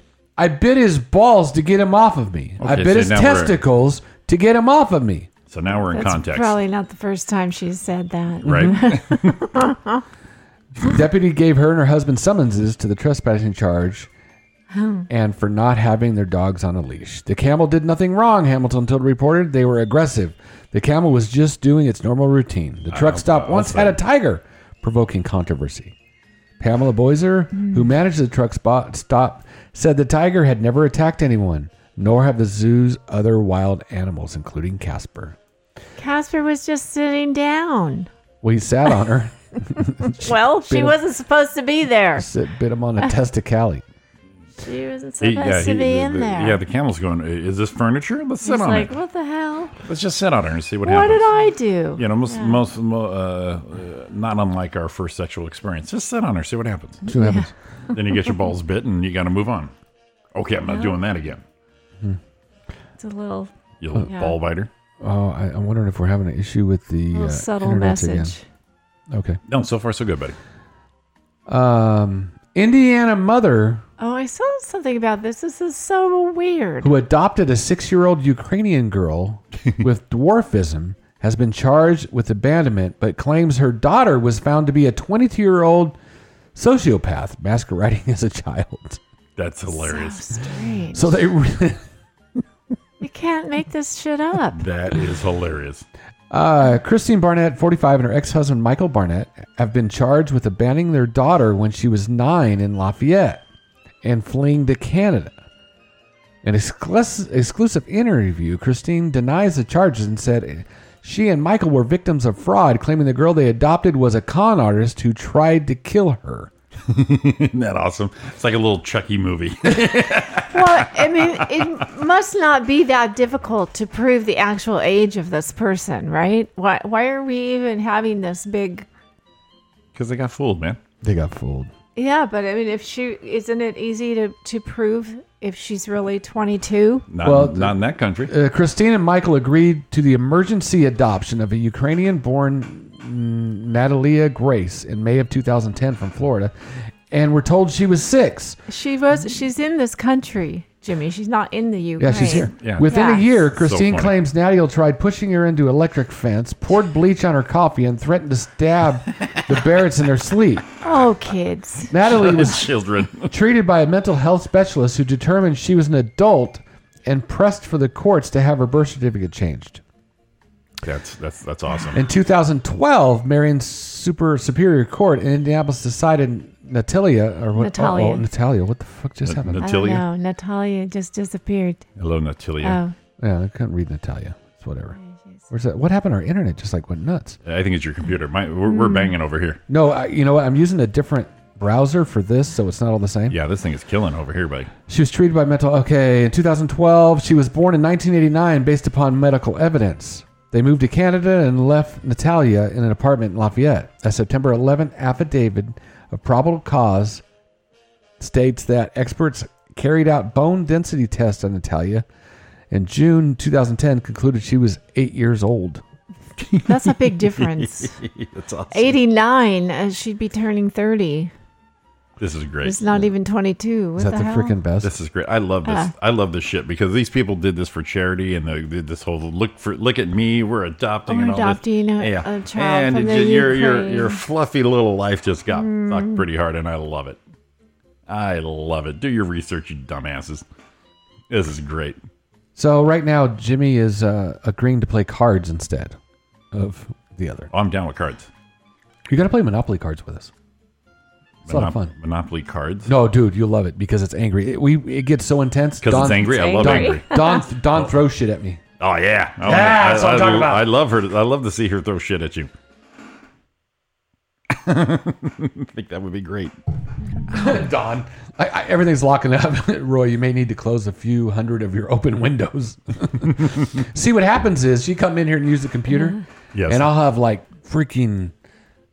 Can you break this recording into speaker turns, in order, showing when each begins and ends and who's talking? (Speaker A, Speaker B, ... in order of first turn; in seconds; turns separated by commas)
Speaker A: 0.4-5.3, Speaker B: 2.6-3.6, Speaker B: 5.5-6.6, Speaker C: 5.8-10.0, Speaker B: 8.4-9.4, Speaker A: 10.8-14.1, Speaker C: 14.7-15.1, Speaker A: 15.1-25.9, Speaker B: 22.9-24.0, Speaker A: 26.6-35.4, Speaker C: 36.0-38.1, Speaker A: 38.4-41.0, Speaker C: 40.0-42.3, Speaker A: 42.1-43.8, Speaker C: 44.6-46.6, Speaker B: 45.2-48.9, Speaker C: 48.4-49.8, Speaker B: 49.8-51.2, Speaker C: 50.8-52.6, Speaker B: 52.0-57.0, Speaker C: 57.0-57.5, Speaker A: 57.0-57.5, Speaker B: 57.9-59.7, Speaker B: 60.3-61.4, Speaker C: 60.7-61.0, Speaker C: 63.0-63.5, Speaker B: 63.8-64.7, Speaker C: 64.1-64.3, Speaker A: 65.0-68.3, Speaker C: 67.1-68.4, Speaker A: 69.1-69.4, Speaker B: 69.5-70.3, Speaker A: 71.5-73.8, Speaker C: 74.0-76.9, Speaker A: 76.8-86.0, Speaker A: 86.5-89.0, Speaker B: 89.4-90.2, Speaker C: 89.7-91.2, Speaker A: 90.9-91.8, Speaker C: 93.0-94.6, Speaker B: 94.5-95.8, Speaker A: 96.3-103.4, Speaker A: 104.0-105.4, Speaker A: 106.4-116.5, Speaker B: 116.9-121.7, Speaker C: 120.5-128.9, Speaker B: 129.9-130.8, Speaker A: 131.0-131.7, Speaker C: 131.9-137.1, Speaker B: 137.1-138.3, Speaker A: 137.2-146.5, Speaker A: 147.1-148.6, Speaker C: 148.7-153.3, Speaker A: 152.0-160.7, Speaker B: 152.6-152.9, Speaker B: 153.5-154.1, Speaker C: 160.8-161.9, Speaker A: 161.9-169.8, Speaker B: 162.0-163.3, Speaker B: 170.8-172.0, Speaker A: 171.9-179.6, Speaker C: 177.5-178.2, Speaker B: 179.2-180.0, Speaker C: 179.6-181.9, Speaker B: 182.0-182.8, Speaker C: 182.6-182.9, Speaker A: 183.2-185.0, Speaker A: 185.5-187.4, Speaker B: 187.4-189.6, Speaker C: 188.7-189.1, Speaker A: 189.7-193.4, Speaker B: 193.3-194.7, Speaker A: 194.9-207.2, Speaker A: 208.2-212.0, Speaker A: 212.7-215.8, Speaker B: 216.5-216.8, Speaker C: 216.7-218.0, Speaker B: 217.3-219.0, Speaker C: 218.7-221.3, Speaker B: 222.2-223.0, Speaker C: 222.6-224.6, Speaker A: 224.0-224.9, Speaker B: 224.8-237.2, Speaker C: 225.6-225.9, Speaker C: 231.1-234.2, Speaker C: 235.5-236.2, Speaker B: 238.1-240.4, Speaker B: 241.3-242.0, Speaker A: 242.6-246.0, Speaker A: 246.5-247.5, Speaker B: 247.5-248.3, Speaker A: 249.1-250.3, Speaker B: 251.4-252.9, Speaker A: 251.5-251.9, Speaker A: 252.8-258.6, Speaker B: 255.8-257.1, Speaker C: 256.2-257.4, Speaker B: 258.8-262.5, Speaker A: 259.4-260.7, Speaker B: 264.5-266.6, Speaker A: 267.3-278.3, Speaker C: 275.9-276.2, Speaker B: 276.5-276.9